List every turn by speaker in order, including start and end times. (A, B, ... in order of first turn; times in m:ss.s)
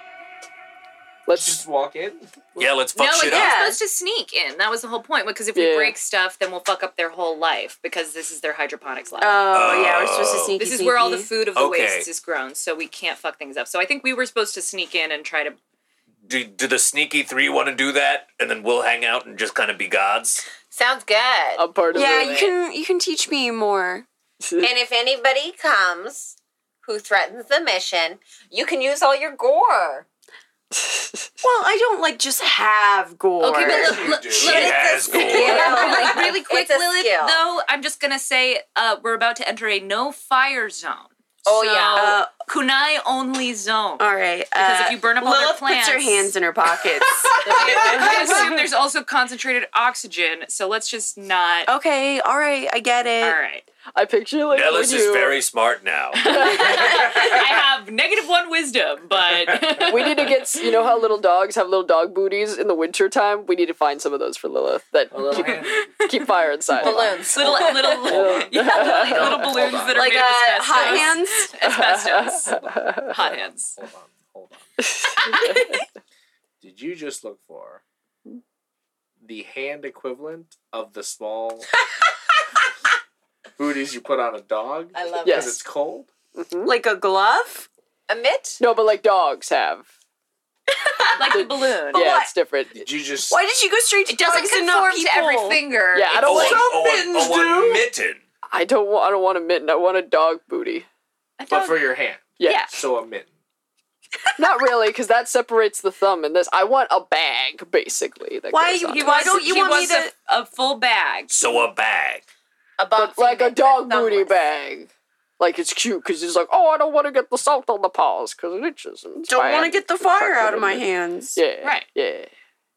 0:01.2-0:01.6 A
0:01.3-0:02.4 B
0:02.6-0:03.6 C
0:02.9-0:09.4 D
0:03.2-0:03.8 E
0:05.5-0:06.0 A
0:09.2-0:11.4 E
0:09.5-0:10.6 C
0:10.6-0:15.6 D
0:11.4-0:12.1 C
0:16.2-0:20.4 C
0:20.7-0:22.5 F
0:21.6-0:22.4 A
0:21.9-0:24.0 E
0:24.6-0:30.0 F
0:30.7-0:31.3 A
0:31.4-0:34.1 E
0:33.4-0:46.3 D
0:33.6-0:34.7 B
0:34.3-0:35.8 C
0:34.4-0:37.4 F
0:34.6-0:36.2 E
0:41.4-0:42.2 F
0:41.9-0:42.3 E
0:44.0-0:48.6 E
0:47.3-0:51.7 D
0:47.4-0:48.5 A
0:51.6-0:53.4 E
0:53.2-0:53.6 D
0:53.9-0:55.4 A
0:54.5-0:56.4 C
0:56.2-0:57.1 A
0:56.2-1:00.4 D
0:59.8-1:07.2 A
1:05.1-1:05.9 B
1:05.4-1:06.1 D
1:06.8-1:08.2 F
1:06.8-1:09.9 B
1:07.3-1:12.6 D
1:08.0-1:10.1 A
1:09.9-1:11.5 E
1:11.6-1:13.1 A
1:12.4-1:14.7 B
1:13.1-1:13.8 D
1:14.9-1:15.6 A
1:16.6-1:17.8 B
1:19.2-1:21.7 B
1:23.6-1:26.1 B
1:24.9-1:25.6 F
1:25.2-1:25.6 A
1:26.4-1:26.7 A
1:26.6-1:27.6 E
1:28.1-1:28.6 F
1:28.6-1:29.9 A
1:31.0-1:32.3 E
1:31.1-1:32.1 D
1:31.3-1:32.8 A
1:32.7-1:33.4 B
1:33.2-1:35.6 E
1:34.1-1:36.6 D
1:35.9-1:36.7 A
1:36.2-1:38.2 C
1:36.4-1:37.7 E
1:38.5-1:40.9 A
1:41.4-1:42.7 D
1:41.5-1:43.3 B
1:42.4-1:42.7 A
1:44.4-1:49.6 A
1:48.5-1:50.1 E
1:48.9-1:51.4 D
1:51.3-1:52.2 C
1:52.8-1:54.4 F
1:53.0-2:02.3 A
1:59.3-2:01.4 E